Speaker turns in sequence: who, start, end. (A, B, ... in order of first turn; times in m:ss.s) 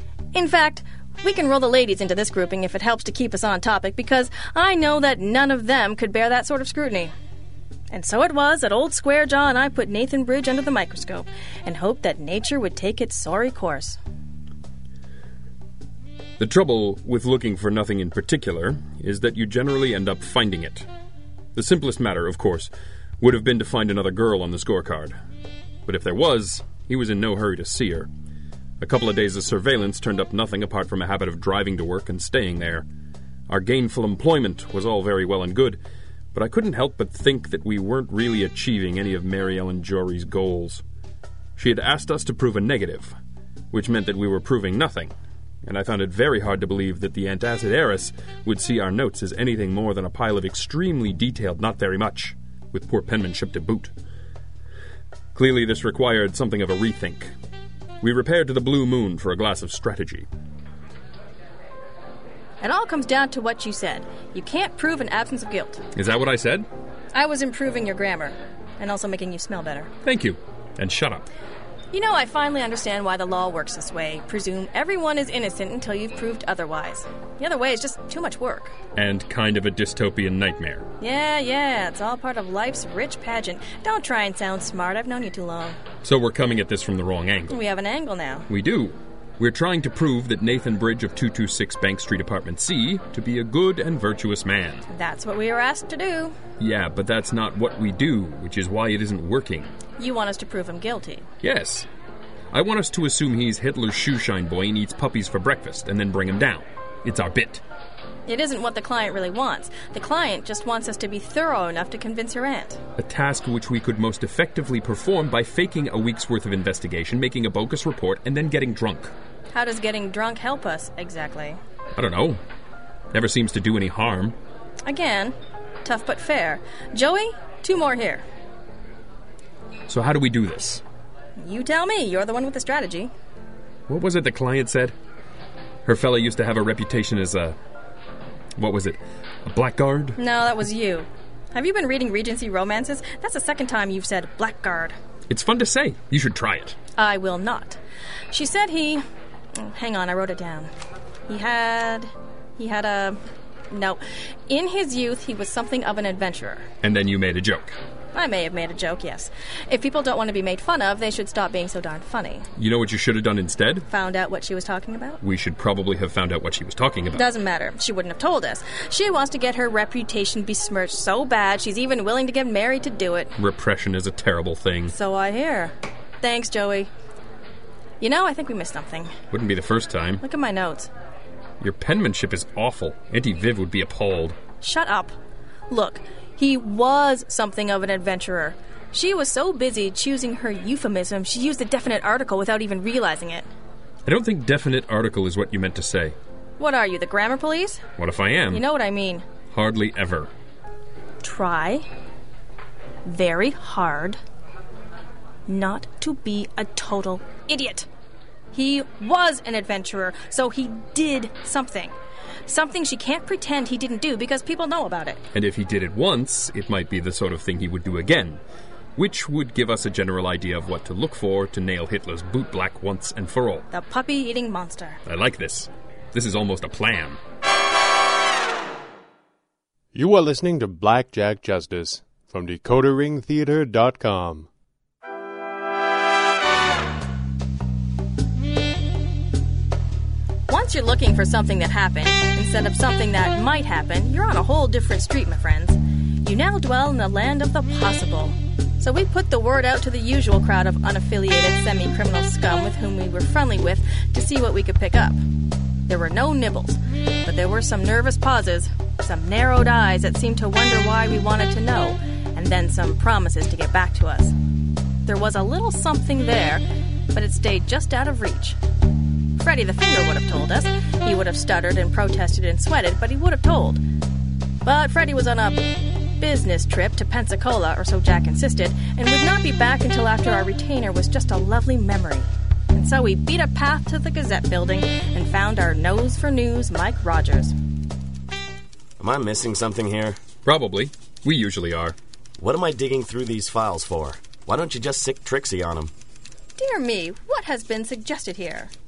0:00.3-0:07.1 A
0:07.9-0:14.0 A
0:16.4-0:20.9 B
0:21.5-0:22.7 B
0:23.2-0:25.2 B
0:25.8-0:28.1 B
0:28.8-0:32.8 B
0:33.5-0:35.8 B
0:36.3-0:40.8 B
0:41.6-0:43.1 B
0:43.7-0:45.1 B
0:45.6-0:53.9 B
0:55.3-0:57.3 B
0:58.0-1:00.3 B
1:02.6-1:05.8 A
1:05.9-1:06.7 B
1:07.1-1:09.9 A
1:10.0-1:11.3 B
1:11.9-1:18.7 A
1:18.9-1:20.9 B
1:21.0-1:25.8 A
1:26.0-1:27.6 B
1:27.5-1:28.5 A
1:28.5-1:34.8 B
1:34.9-1:36.4 A
1:36.6-1:39.7 B
1:40.0-1:41.2 A
1:41.4-1:41.9 B
1:42.5-1:47.6 B
1:48.2-1:52.8 A
1:53.0-1:59.1 B
1:59.5-2:01.6 A
2:01.9-2:02.4 B
2:03.1-2:04.4 B
2:04.8-2:08.2 A
2:09.9-2:10.8 B
2:11.4-2:13.1 A
2:13.9-2:14.9 B
2:15.8-2:17.6 B
2:18.6-2:20.2 B
2:20.2-2:25.0 A
2:25.3-2:26.8 B
2:27.0-2:27.8 A
2:28.3-2:29.0 A
2:29.5-2:30.7 A
2:31.3-2:36.6 A
2:36.8-2:37.8 B
2:38.1-2:42.4 A
2:42.6-2:43.8 B
2:43.9-2:45.2 A
2:45.2-2:47.2 B
2:47.1-2:53.3 A
2:53.4-2:54.9 B
2:54.9-2:56.9 A
2:58.0-2:59.1 A
2:59.3-3:00.2 B
3:00.2-3:00.9 A
3:01.6-3:04.4 B
3:04.6-3:05.1 A
3:05.7-3:13.4 A
3:14.0-3:16.2 B
3:16.6-3:17.8 A
3:18.0-3:18.6 B
3:18.5-3:19.2 A
3:19.5-3:20.3 B
3:21.2-3:21.8 A
3:23.0-3:24.2 A
3:25.5-3:27.9 A
3:28.5-3:31.9 A
3:32.5-3:35.2 A
3:35.3-3:38.4 B
3:39.0-3:43.7 B
3:43.7-3:45.0 A
3:45.0-3:47.2 B
3:49.9-3:54.4 C
4:00.5-4:15.2 A
4:15.9-4:24.3 A
4:25.0-4:28.6 A
4:29.4-4:33.8 A
4:34.6-4:35.6 A
4:36.2-4:47.5 A
4:49.0-4:50.2 D
4:50.4-4:52.0 B
4:52.4-4:55.9 D
4:56.6-4:58.7 A